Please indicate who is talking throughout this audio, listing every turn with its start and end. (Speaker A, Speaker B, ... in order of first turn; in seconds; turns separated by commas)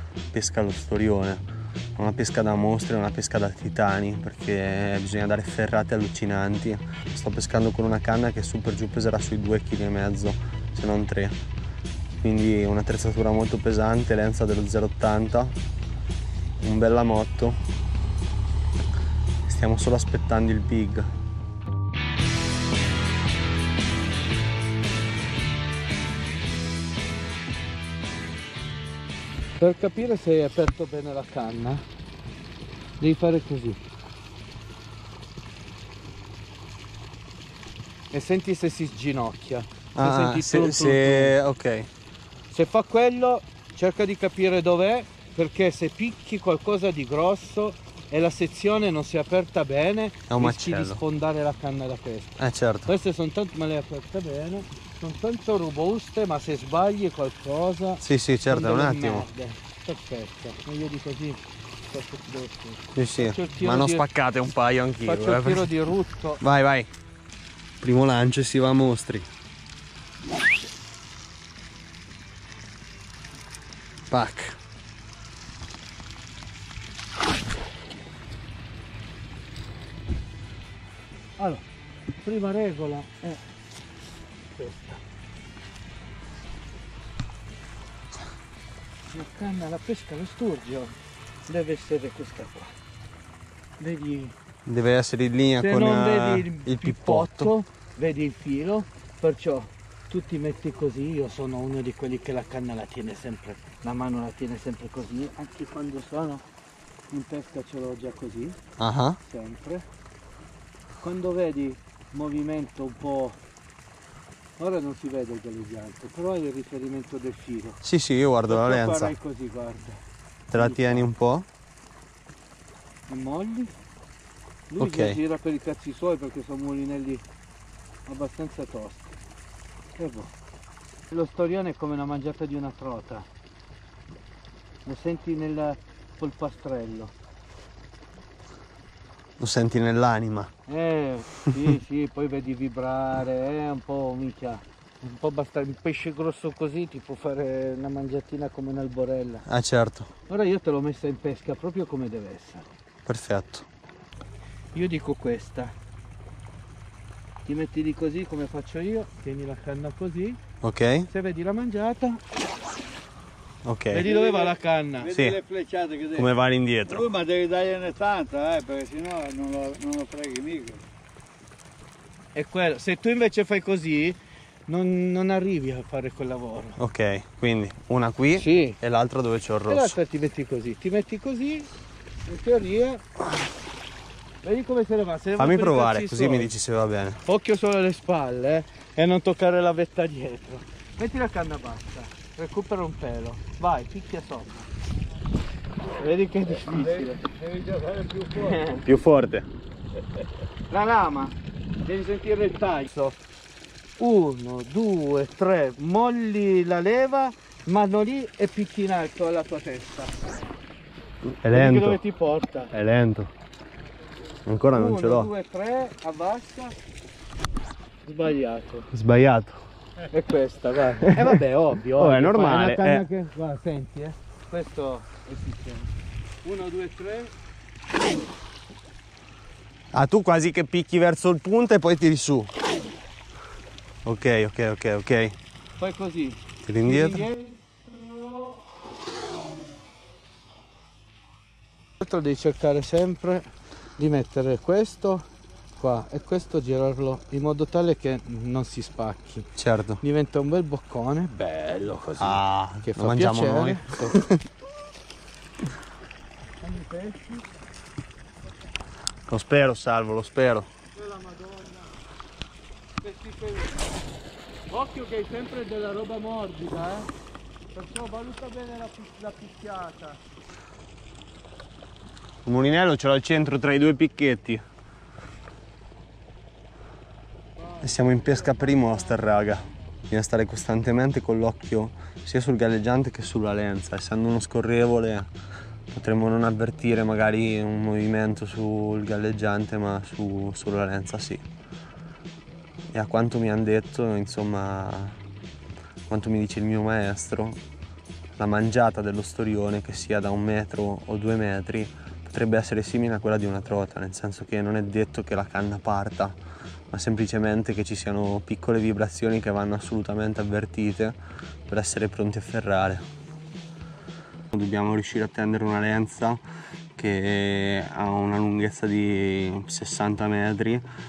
Speaker A: 0.3-1.4, Speaker A: 2.0-11.3, Speaker A: 12.2-15.5, Speaker A: 16.6-17.6, Speaker A: 19.4-21.1, Speaker B: 29.6-31.8, Speaker B: 33.0-33.8, Speaker B: 38.1-41.4, Speaker A: 39.9-41.9, Speaker B: 42.5-64.0, Speaker A: 50.3-51.0, Speaker A: 52.4-52.9, Speaker A: 58.0-59.3, Speaker A: 62.9-65.7, Speaker B: 65.0-66.4, Speaker A: 66.4-66.9, Speaker A: 67.8-69.3, Speaker A: 74.1-74.6, Speaker B: 81.4-81.6, Speaker B: 82.2-83.4, Speaker B: 84.5-85.0, Speaker B: 89.1-90.9, Speaker B: 91.5-92.7, Speaker B: 93.8-94.3, Speaker A: 94.7-97.5, Speaker B: 95.6-106.4, Speaker B: 107.1-108.6, Speaker A: 108.8-109.2, Speaker B: 109.2-109.8, Speaker B: 111.0-113.4, Speaker B: 114.6-117.8, Speaker A: 117.8-119.1, Speaker B: 118.5-120.0, Speaker A: 120.5-121.5, Speaker B: 120.5-121.1, Speaker B: 123.1-123.7, Speaker B: 124.7-127.2, Speaker A: 124.8-125.2, Speaker B: 128.1-129.1, Speaker B: 130.0-130.3, Speaker B: 131.1-133.2, Speaker B: 134.8-137.1, Speaker A: 139.4-140.5, Speaker B: 140.7-149.4, Speaker A: 149.4-150.1, Speaker B: 150.3-152.7, Speaker A: 153.1-153.7, Speaker B: 154.7-155.7, Speaker B: 157.4-160.4, Speaker A: 160.6-161.1, Speaker B: 161.1-162.2, Speaker A: 163.6-164.2, Speaker B: 163.9-165.2, Speaker C: 164.3-164.5, Speaker C: 165.1-166.3, Speaker A: 165.1-165.4, Speaker A: 166.1-167.1, Speaker C: 166.9-170.8, Speaker B: 172.3-176.8, Speaker A: 176.8-179.9, Speaker B: 178.3-178.8, Speaker B: 179.7-181.7, Speaker B: 182.2-183.0, Speaker B: 184.4-186.5, Speaker A: 185.3-187.2, Speaker B: 187.2-194.7, Speaker B: 195.9-197.2, Speaker C: 197.0-198.6, Speaker B: 198.3-198.8, Speaker A: 198.8-199.5, Speaker B: 200.7-203.2, Speaker B: 204.0-210.2, Speaker A: 211.2-212.0, Speaker B: 211.5-212.7, Speaker A: 212.7-213.3, Speaker A: 214.4-215.3, Speaker B: 214.7-216.8, Speaker B: 218.1-218.9, Speaker A: 218.9-219.6, Speaker B: 220.1-225.9, Speaker A: 221.1-221.4, Speaker A: 221.9-223.0, Speaker B: 226.4-227.3, Speaker A: 229.9-232.5, Speaker A: 234.0-235.3, Speaker B: 235.8-237.6, Speaker A: 236.6-237.3, Speaker B: 242.0-243.5, Speaker B: 244.0-245.2, Speaker B: 245.8-249.5, Speaker A: 249.6-250.0, Speaker B: 250.0-254.2, Speaker A: 252.2-254.4, Speaker B: 256.6-257.4, Speaker A: 259.3-260.7, Speaker B: 261.0-261.9, Speaker B: 263.0-263.8, Speaker B: 264.7-267.1, Speaker B: 267.7-270.2, Speaker A: 272.4-274.6, Speaker B: 277.6-278.6, Speaker A: 277.8-285.3, Speaker A: 285.9-291.4, Speaker A: 292.9-295.2, Speaker A: 296.1-297.6, Speaker A: 298.4-306.4, Speaker A: 306.9-313.0, Speaker A: 314.5-316.4, Speaker A: 316.9-320.8